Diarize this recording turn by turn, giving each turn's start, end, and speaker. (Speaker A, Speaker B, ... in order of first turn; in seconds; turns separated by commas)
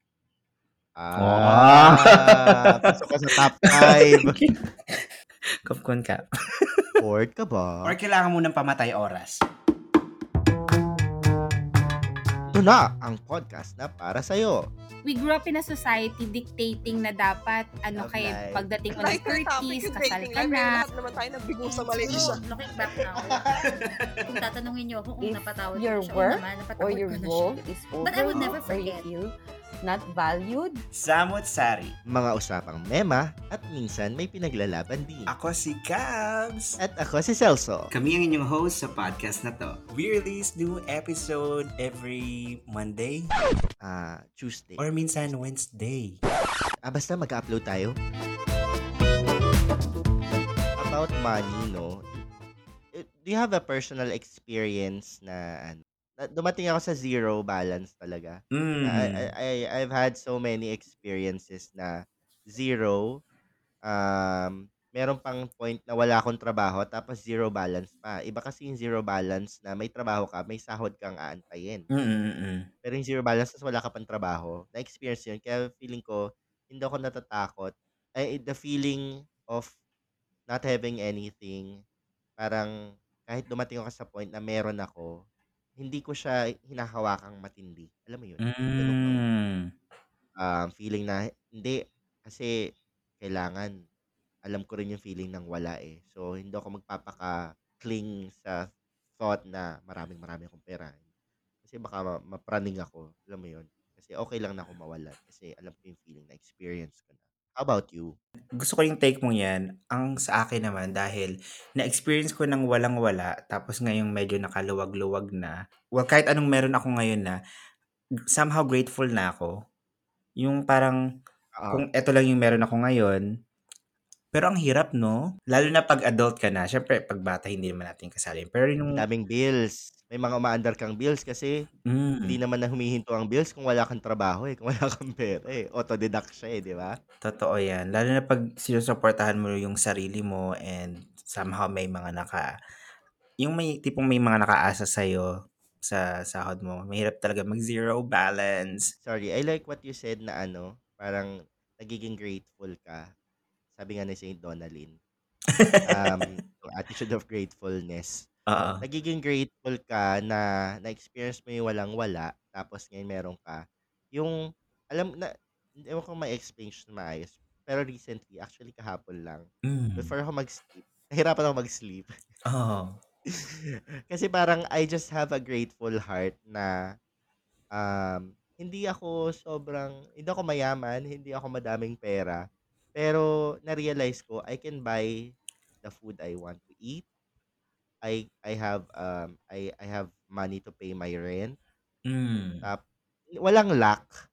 Speaker A: 1.0-4.3, Speaker B: 1.2-2.6, Speaker B: 3.8-5.0, Speaker B: 5.7-6.8, Speaker A: 7.0-7.9, Speaker B: 7.8-9.4, Speaker A: 12.5-14.6, Speaker C: 15.1-20.9, Speaker A: 18.0-19.2, Speaker D: 19.0-22.4, Speaker E: 21.6-23.6, Speaker B: 23.6-24.3, Speaker E: 24.3-29.1, Speaker F: 25.2-29.3, Speaker B: 28.3-28.8, Speaker F: 29.8-30.8, Speaker B: 30.9-31.9, Speaker A: 32.1-35.3, Speaker B: 35.3-36.8, Speaker A: 36.8-37.9, Speaker B: 37.9-43.3, Speaker A: 43.8-44.8, Speaker B: 44.8-46.2, Speaker A: 46.9-47.9, Speaker A: 50.8-52.1, Speaker A: 53.0-62.0, Speaker B: 58.5-59.2, Speaker A: 62.5-63.1, Speaker A: 63.9-71.8, Speaker B: 71.9-72.7, Speaker A: 72.8-79.7, Speaker A: 80.5-81.7, Speaker A: 82.4-82.7, Speaker A: 83.3-85.1, Speaker A: 85.8-89.2, Speaker B: 88.4-89.7, Speaker A: 90.4-92.5, Speaker A: 93.2-93.7, Speaker A: 94.5-98.6, Speaker A: 99.2-101.0, Speaker A: 101.7-108.1, Speaker B: 108.6-117.4, Speaker B: 118.3-119.5, Speaker B: 120.4-121.0, Speaker A: 121.6-121.8, Speaker B: 121.7-123.2, Speaker B: 124.3-129.0, Speaker A: 128.9-131.5, Speaker B: 131.9-132.4, Speaker A: 132.3-137.0, Speaker B: 137.2-142.5, Speaker B: 143.4-145.3, Speaker B: 145.8-148.9, Speaker A: 149.1-151.3, Speaker A: 151.8-153.0, Speaker A: 153.8-155.0, Speaker B: 155.5-156.1, Speaker A: 155.9-158.3, Speaker B: 158.5-158.8, Speaker A: 158.8-163.6, Speaker A: 164.9-165.3, Speaker A: 165.8-169.5, Speaker B: 169.7-170.1, Speaker A: 170.0-172.1, Speaker B: 172.5-173.0, Speaker A: 173.3-176.7, Speaker A: 177.8-182.4, Speaker A: 183.0-185.1, Speaker A: 185.8-187.1, Speaker A: 188.0-191.6, Speaker B: 192.1-192.6, Speaker A: 193.4-194.1